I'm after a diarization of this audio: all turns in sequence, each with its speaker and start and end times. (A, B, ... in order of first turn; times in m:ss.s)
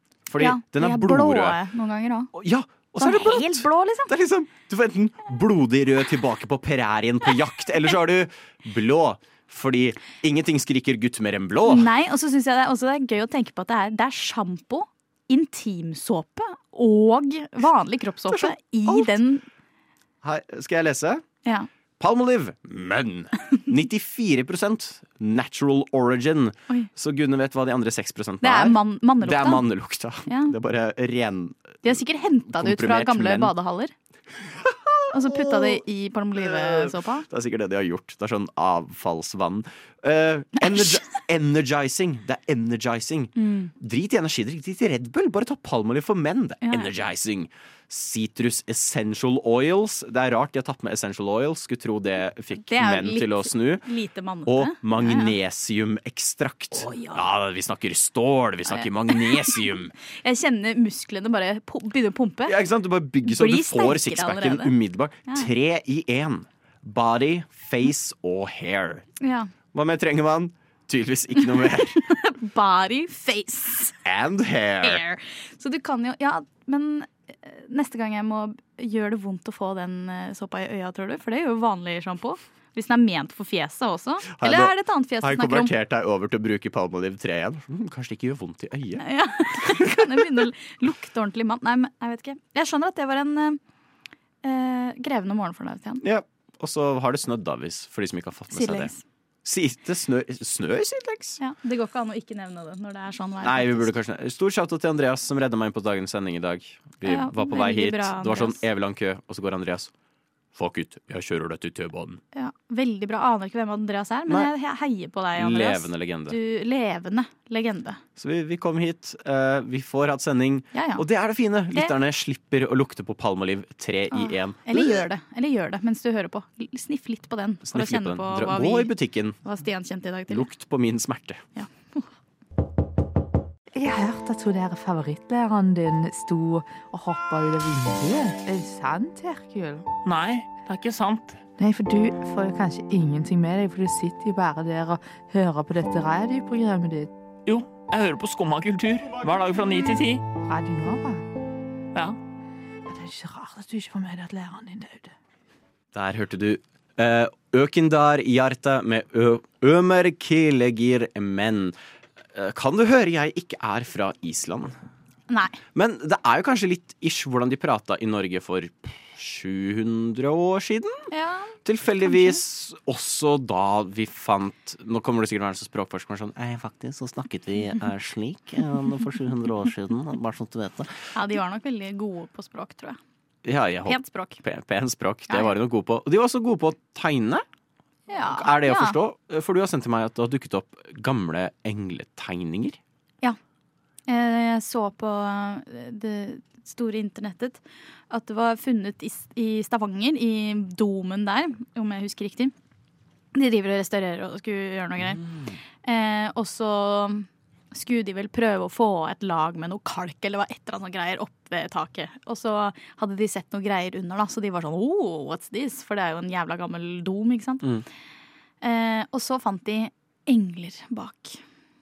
0:00.3-0:01.6 A
0:00.4-0:02.3 B
0:02.3-0:11.9 A
0:03.0-0:04.1 B
0:11.6-0:19.4 B
0:18.3-0:19.2 A
0:20.2-0:21.2 A
0:22.0-0:33.5 A
0:28.4-0:29.6 B
0:30.3-0:30.5 B
0:31.8-0:33.9 B
0:34.6-0:35.8 A
0:35.1-0:37.3 B
0:36.4-0:53.8 A
0:40.6-0:41.1 B
0:43.4-0:43.7 B
0:46.6-0:46.9 B
0:52.6-0:55.4 B
0:54.5-0:59.9 A
0:56.7-0:57.3 B
0:58.7-1:02.6 B
1:02.5-1:09.1 A
1:03.2-1:04.7 B
1:09.2-1:09.5 B
1:09.7-1:12.0 A
1:11.4-1:14.0 B
1:14.0-1:15.0 A
1:14.8-1:25.7 B
1:24.3-1:30.4 A
1:29.0-1:33.6 B
1:34.4-1:36.0 B
1:36.0-1:38.9 A
1:38.5-1:39.0 B
1:39.4-1:41.4 A
1:41.4-1:43.9 B
1:43.4-1:49.9 A
1:47.0-1:48.6 B
1:50.5-1:52.2 A
1:52.3-1:58.0 B
1:55.4-1:56.4 A
1:58.2-2:05.1 A
2:00.7-2:01.0 B
2:04.1-2:10.5 B
2:07.6-2:09.4 A
2:10.3-2:11.4 A
2:11.6-2:12.1 B
2:13.7-2:19.9 C
2:20.0-2:21.4 D
2:21.6-2:27.1 C
2:27.5-2:30.2 D
2:30.5-2:31.2 C
2:32.9-2:35.1 C
2:35.9-2:41.8 A
2:42.3-2:44.7 A
2:45.3-2:45.6 B
2:45.8-2:51.1 A
2:51.1-2:52.4 B
2:51.6-3:01.0 A
3:01.1-3:03.0 B
3:03.4-3:07.4 A
3:03.9-3:04.4 B
3:05.3-3:05.5 B
3:08.1-3:09.0 B
3:08.2-3:12.8 A
3:14.1-3:22.5 B
3:23.3-3:25.2 B
3:25.0-3:25.6 A
3:25.8-3:37.7 B
3:38.6-3:41.4 B